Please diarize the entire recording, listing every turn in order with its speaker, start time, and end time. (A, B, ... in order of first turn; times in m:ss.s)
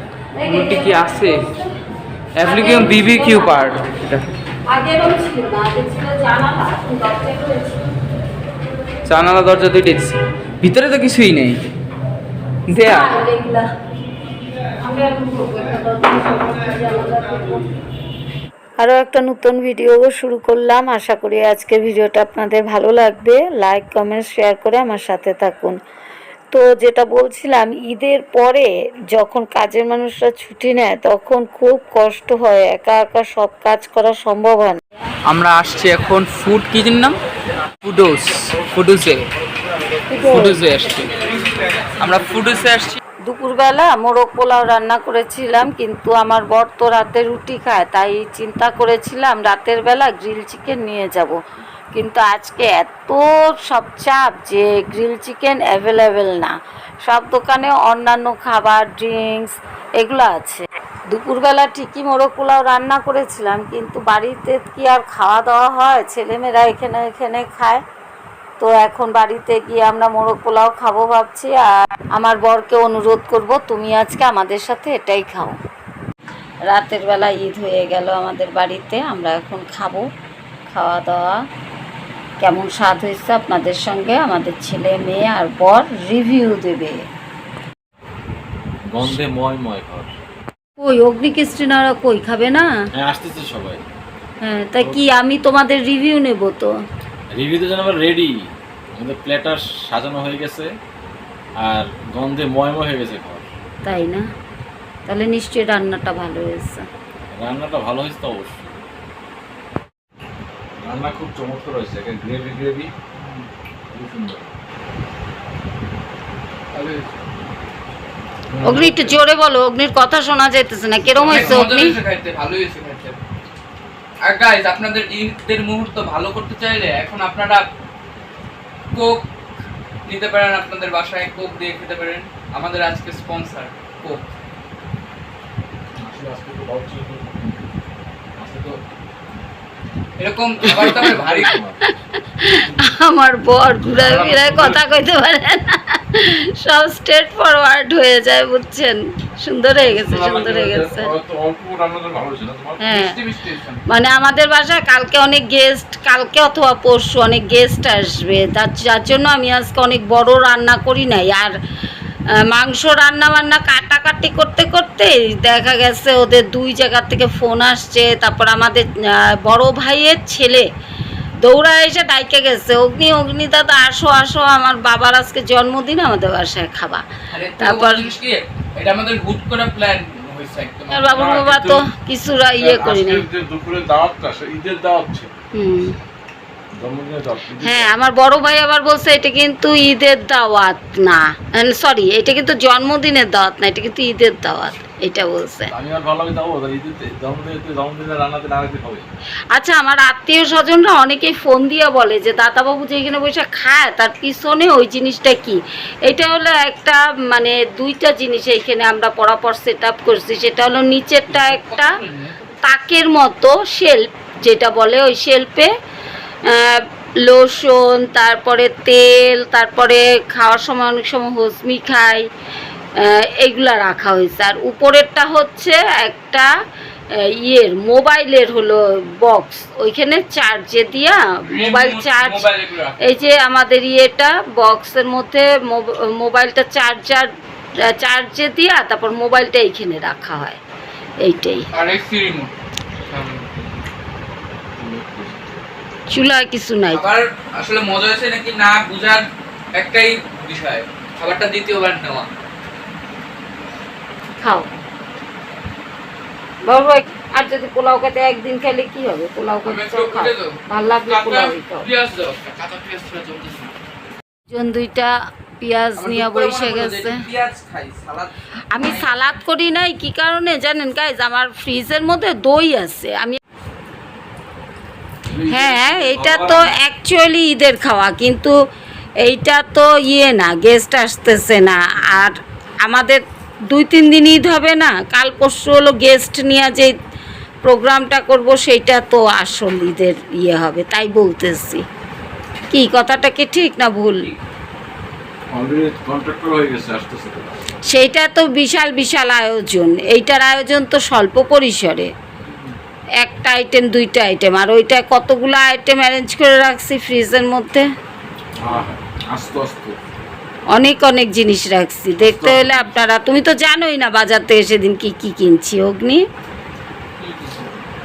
0:00.3-0:01.6 A
0:00.4-0:01.5 B
0:02.4-0:04.3 B
0:02.4-0:03.8 A
0:04.7-0:07.9 A
0:09.0-0:11.7 B
0:12.7-0:13.2 B
0:12.8-0:13.7 A
0:14.8-0:17.7 A
0:18.8-0:25.8 A
0:26.5-0:34.8 A
0:35.2-0:37.2 B
0:37.8-0:39.2 B
0:40.1-0:40.6 A
0:40.2-0:41.2 B
0:42.0-0:43.0 B
0:43.3-0:51.4 A
0:51.9-1:07.8 A
1:08.6-1:15.6 A
1:16.6-1:20.0 A
1:20.7-1:21.3 A
1:22.4-1:27.0 A
1:28.9-1:30.1 C
1:30.8-1:32.7 A
1:32.9-1:33.8 C
1:34.4-1:36.7 A
1:37.3-1:40.7 C
1:41.6-1:43.5 C
1:43.8-1:44.2 A
1:45.1-1:46.8 A
1:47.3-1:48.8 C
1:50.8-1:52.9 C
1:53.2-1:53.5 B
1:53.9-1:54.5 C
1:56.7-1:57.1 B
1:58.5-1:59.1 C
1:58.6-2:01.9 A
2:01.2-2:03.2 B
2:01.2-2:01.6 C
2:04.2-2:07.7 B
2:08.9-2:09.2 B
2:10.0-2:14.2 B
2:16.0-2:17.6 C
2:18.4-2:18.8 C
2:20.2-2:21.5 B
2:20.6-2:21.8 C
2:20.7-2:21.1 A
2:22.3-2:31.1 A
2:22.5-2:22.9 C
2:23.9-2:25.0 C
2:29.8-2:32.9 C
2:32.8-2:33.1 A
2:32.8-2:33.8 B
2:33.9-2:41.5 A
2:42.4-2:50.6 A
2:51.4-2:57.0 A
2:57.3-3:01.4 B
2:57.6-2:58.1 A
3:00.9-3:03.2 A
3:01.1-3:01.8 C
3:02.6-3:05.3 C
3:05.5-3:05.9 A
3:06.8-3:07.9 C
3:07.6-3:15.7 A
3:15.7-3:19.0 C
3:19.5-3:32.0 A
3:31.3-3:32.4 B
3:32.6-3:35.7 A
3:36.4-3:42.2 A
3:43.0-3:46.5 A
3:47.4-3:52.4 A
3:51.5-3:53.0 B
3:53.0-3:57.3 A
3:57.8-4:00.6 A
4:01.2-4:01.6 A
4:01.7-4:02.5 B
4:03.1-4:03.5 B
4:04.8-4:05.6 C
4:06.1-4:07.0 A
4:06.9-4:12.3 B
4:14.4-4:14.7 A
4:16.6-4:21.9 A
4:19.6-4:23.7 B
4:24.5-4:27.2 A
4:26.0-4:29.4 B
4:28.7-4:33.4 A
4:35.2-4:36.7 C
4:35.5-4:38.5 A
4:39.2-4:46.9 A
4:47.6-4:51.8 A
4:52.7-4:54.3 A
4:55.5-4:57.6 C
4:57.9-5:02.1 A
5:02.5-5:02.7 B
5:03.2-5:07.9 A
5:08.6-5:10.0 C
5:10.7-5:16.2 A
5:12.2-5:13.0 C
5:17.2-5:17.6 B